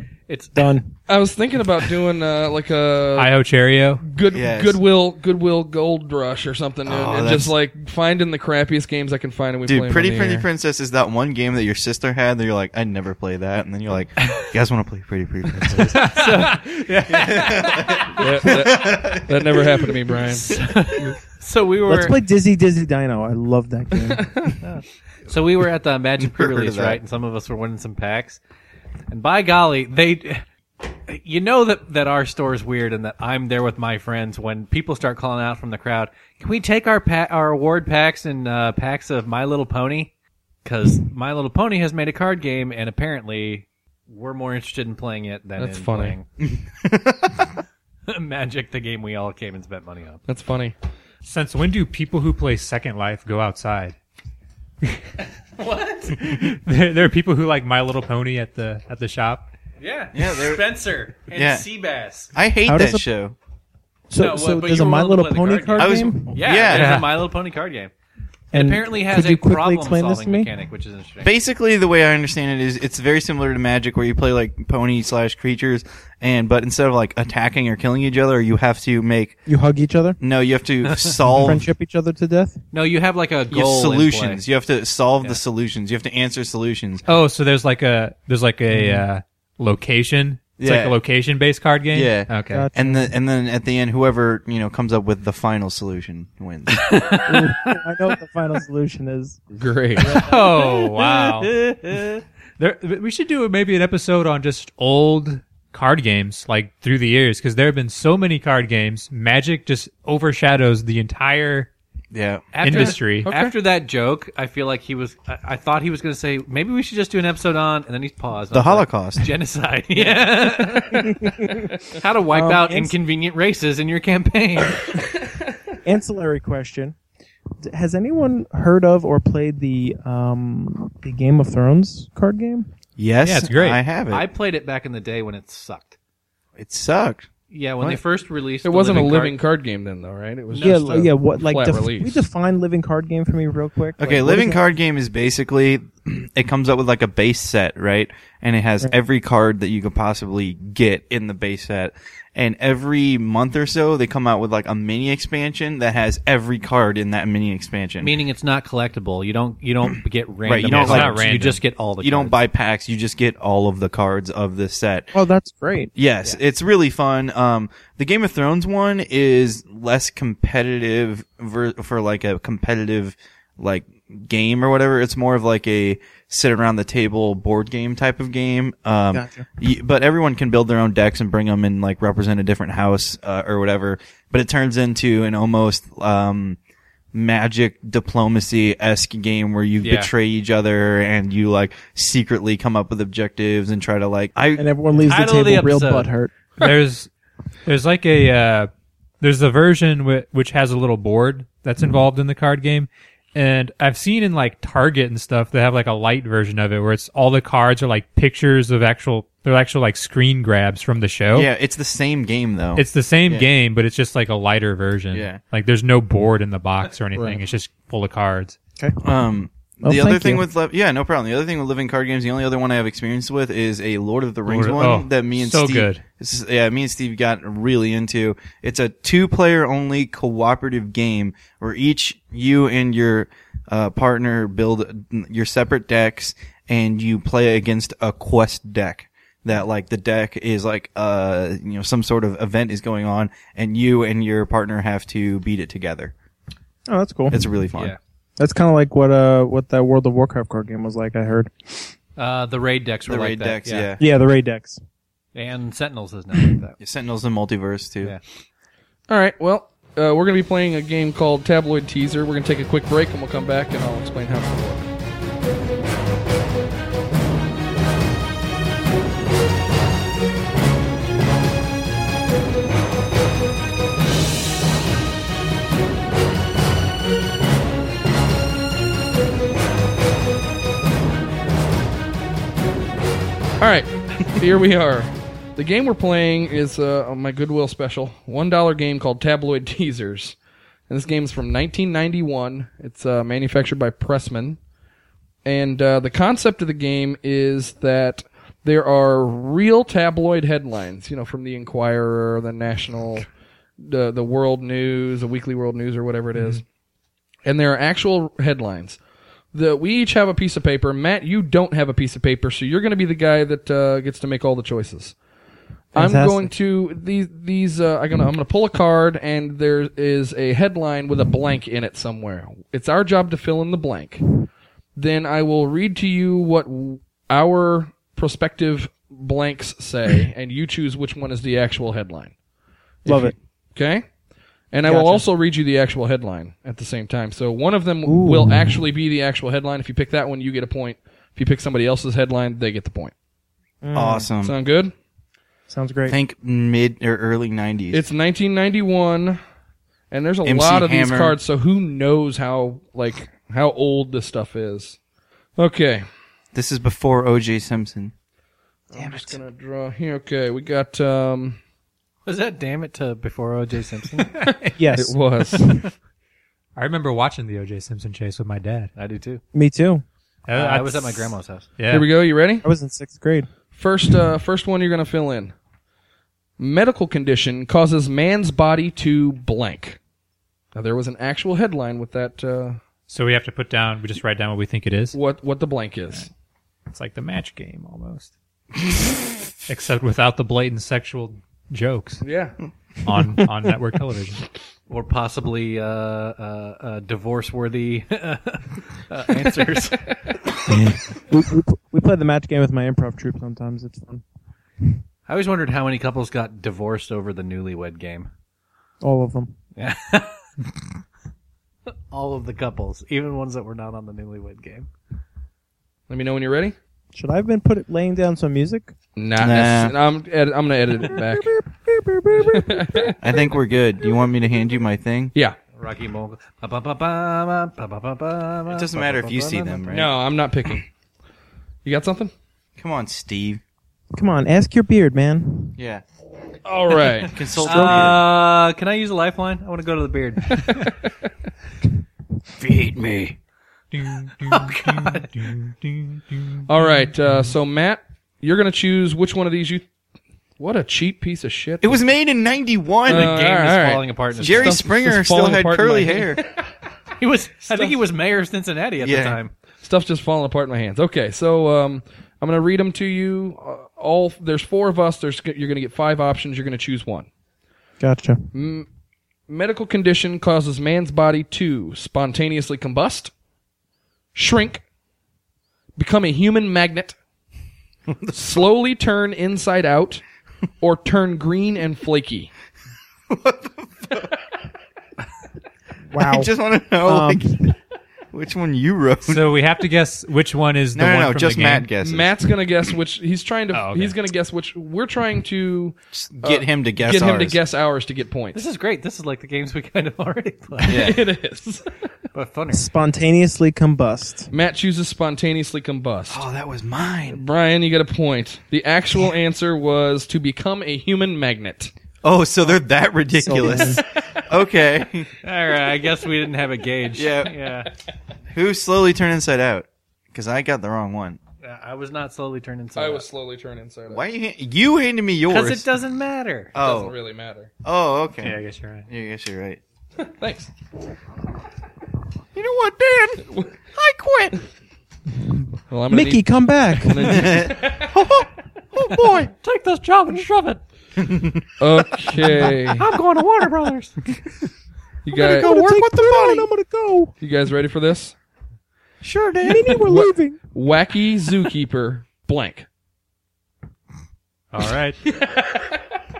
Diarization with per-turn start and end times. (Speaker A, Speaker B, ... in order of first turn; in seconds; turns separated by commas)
Speaker A: 0.3-0.7, Speaker B: 0.5-0.9, Speaker C: 1.1-3.3, Speaker D: 3.2-4.0, Speaker C: 4.0-10.5, Speaker E: 4.3-4.8, Speaker E: 6.8-7.5, Speaker E: 9.6-16.2, Speaker D: 15.7-18.0, Speaker A: 16.1-16.6, Speaker E: 17.1-19.5, Speaker C: 18.1-20.5, Speaker A: 20.4-22.2, Speaker B: 21.9-24.6, Speaker C: 24.2-24.5, Speaker A: 24.6-28.4, Speaker E: 26.2-27.0, Speaker A: 29.1-30.4, Speaker A: 31.1-40.1, Speaker A: 40.6-46.2, Speaker C: 45.6-46.2, Speaker E: 46.4-47.5, Speaker A: 48.1-50.2, Speaker C: 50.3-50.7, Speaker D: 51.2-54.0, Speaker A: 55.6-56.2, Speaker D: 56.1-59.5, Speaker A: 59.8-62.3, Speaker E: 60.1-60.6, Speaker E: 61.3-61.6, Speaker E: 62.3-63.3, Speaker B: 62.7-63.0, Speaker B: 64.1-66.3, Speaker A: 64.2-67.9, Speaker E: 65.8-67.0, Speaker D: 66.7-67.1, Speaker A: 68.5-71.3, Speaker B: 68.5-70.5, Speaker E: 71.2-79.4, Speaker B: 79.5-80.2, Speaker E: 80.2-81.7, Speaker A: 80.9-81.2, Speaker B: 81.3-82.6, Speaker A: 82.7-84.4, Speaker E: 83.5-87.0, Speaker D: 87.0-92.7, Speaker B: 88.7-89.0, Speaker E: 90.6-91.0, Speaker E: 91.9-97.0, Speaker B: 92.5-93.1, Speaker A: 96.8-97.6, Speaker B: 97.2-99.4, Speaker C: 99.5-100.2, Speaker A: 100.0-102.2, Speaker D: 100.1-101.5, Speaker D: 102.6-111.7, Speaker E: 112.1-112.5, Speaker A: 112.5-121.2, Speaker D: 112.6-113.3, Speaker C: 112.7-113.5, Speaker E: 118.5-119.3, Speaker B: 120.9-121.7, Speaker A: 121.9-125.0, Speaker B: 122.3-122.9, Speaker B: 125.8-127.0, Speaker B: 127.6-132.7, Speaker E: 133.0-134.2, Speaker D: 133.2-133.8, Speaker A: 134.1-135.9, Speaker E: 136.6-137.3, Speaker A: 137.5-139.4, Speaker C: 138.6-142.2, Speaker A: 140.5-141.0, Speaker B: 140.6-144.6, Speaker E: 144.0-158.2, Speaker A: 158.0-162.4, Speaker E: 160.4-161.3, Speaker D: 160.6-161.6, Speaker E: 162.0-165.1, Speaker B: 165.1-165.9, Speaker E: 165.9-186.6, Speaker B: 179.1-179.4, Speaker E: 187.1-194.7, Speaker A: 189.8-190.1, Speaker B: 194.6-196.3, Speaker A: 194.9-196.1, Speaker D: 196.6-197.1, Speaker D: 197.6-198.7, Speaker D: 199.2-211.5, Speaker E: 211.3-213.5, Speaker D: 212.8-218.6, Speaker E: 215.1-215.4, Speaker E: 219.0-246.1, Speaker B: 219.8-220.4, Speaker D: 224.5-226.0, Speaker B: 246.9-247.4, Speaker E: 247.3-247.9, Speaker B: 248.4-251.9, Speaker A: 252.2-253.9, Speaker E: 253.1-254.0, Speaker B: 254.0-254.8, Speaker A: 255.3-256.8, Speaker E: 256.8-258.1, Speaker C: 259.1-264.9, Speaker C: 283.6-290.4, Speaker C: 290.9-294.6, Speaker C: 295.4-303.2, Speaker C: 303.8-306.6, Speaker C: 307.4-309.0, Speaker C: 309.5-315.1, Speaker C: 315.9-324.3, Speaker B: 315.9-316.5, Speaker C: 324.9-332.3, Speaker C: 333.0-334.1, Speaker B: 333.0-333.3, Speaker C: 334.7-343.1, Speaker B: 334.8-335.2, Speaker B: 338.0-338.8, Speaker B: 343.8-344.3, Speaker E: 343.9-344.5, Speaker C: 344.4-344.9, Speaker B: 345.7-346.1, Speaker E: 346.1-348.0, Speaker C: 347.9-349.4, Speaker C: 350.1-355.0, Speaker E: 350.4-351.4, Speaker C: 355.6-356.1, Speaker E: 356.5-358.1, Speaker C: 358.9-361.6, Speaker E: 358.9-359.4, Speaker A: 362.2-364.3, Speaker D: 364.2-364.8, Speaker B: 364.8-365.2, Speaker C: 364.9-365.7, Speaker D: 366.8-368.9, Speaker A: 368.9-369.4, Speaker B: 369.5-370.0, Speaker D: 370.5-372.1, Speaker A: 370.5-371.7, Speaker C: 371.9-372.6, Speaker B: 372.6-373.5, Speaker C: 373.7-375.5, Speaker C: 376.6-380.0, Speaker C: 380.7-382.8, Speaker D: 383.1-385.2, Speaker C: 385.1-386.3, Speaker D: 386.9-388.3, Speaker D: 389.7-392.2, Speaker C: 392.2-392.6, Speaker D: 393.0-394.4, Speaker A: 394.9-400.2, Speaker B: 400.7-404.2, Speaker A: 405.3-408.3, Speaker B: 409.0-409.5, Speaker A: 409.8-410.4, Speaker A: 412.1-414.9, Speaker C: 416.1-416.8, Speaker B: 417.1-418.9, Speaker C: 419.1-421.6, Speaker E: 419.4-419.9, Speaker B: 421.0-423.1, Speaker C: 422.5-423.1, Speaker E: 423.2-425.3, Speaker A: 425.7-429.8, Speaker E: 428.7-430.1, Speaker C: 429.9-430.9, Speaker C: 431.8-432.3, Speaker E: 432.8-433.6, Speaker B: 434.1-435.8, Speaker E: 435.8-436.0, Speaker C: 436.6-437.3, Speaker E: 437.3-438.2, Speaker A: 437.6-440.8, Speaker B: 437.6-438.1, Speaker E: 442.6-443.4, Speaker D: 443.9-446.7, Speaker A: 444.5-445.5, Speaker C: 446.7-449.9, Speaker C: 450.6-452.0, Speaker E: 451.8-453.4, Speaker C: 453.1-456.6, Speaker A: 453.1-454.8, Speaker E: 454.4-456.4, Speaker A: 457.2-459.5, Speaker E: 459.0-459.4, Speaker C: 459.8-467.3, Speaker B: 468.0-468.4, Speaker C: 468.5-468.9, Speaker C: 469.5-473.3, Speaker C: 474.3-474.8, Speaker C: 475.9-477.1, Speaker C: 478.3-480.2, Speaker C: 480.8-482.5, Speaker E: 483.3-484.4, Speaker B: 486.1-486.5, Speaker E: 486.1-487.7, Speaker B: 487.0-487.6, Speaker E: 488.3-489.5, Speaker D: 489.2-491.9, Speaker E: 490.9-492.3, Speaker C: 492.0-498.6, Speaker D: 493.7-494.1, Speaker E: 496.1-497.6, Speaker A: 498.5-501.1, Speaker C: 500.8-501.8, Speaker E: 500.9-501.2, Speaker A: 502.3-502.9, Speaker B: 502.7-504.5, Speaker C: 504.5-506.4, Speaker E: 506.3-507.4, Speaker C: 507.3-511.9, Speaker E: 512.2-515.3, Speaker B: 513.4-514.0, Speaker A: 515.4-517.9, Speaker E: 517.1-517.5, Speaker E: 518.5-521.4, Speaker A: 521.6-523.2, Speaker C: 523.0-524.2, Speaker E: 524.1-525.8, Speaker A: 525.5-526.7, Speaker E: 526.7-527.1, Speaker C: 526.8-527.7, Speaker E: 527.8-529.8, Speaker D: 528.4-529.1, Speaker C: 530.2-530.7, Speaker E: 532.5-534.6, Speaker C: 535.9-538.1, Speaker B: 536.1-537.7, Speaker E: 537.3-539.5, Speaker A: 539.2-540.8, Speaker E: 541.2-541.6, Speaker C: 541.8-543.0, Speaker A: 542.5-544.2, Speaker C: 545.2-545.7, Speaker B: 545.3-547.3, Speaker E: 545.5-546.7, Speaker C: 547.4-548.3, Speaker E: 549.2-550.0, Speaker B: 549.6-550.6, Speaker C: 550.0-552.9, Speaker D: 554.7-555.2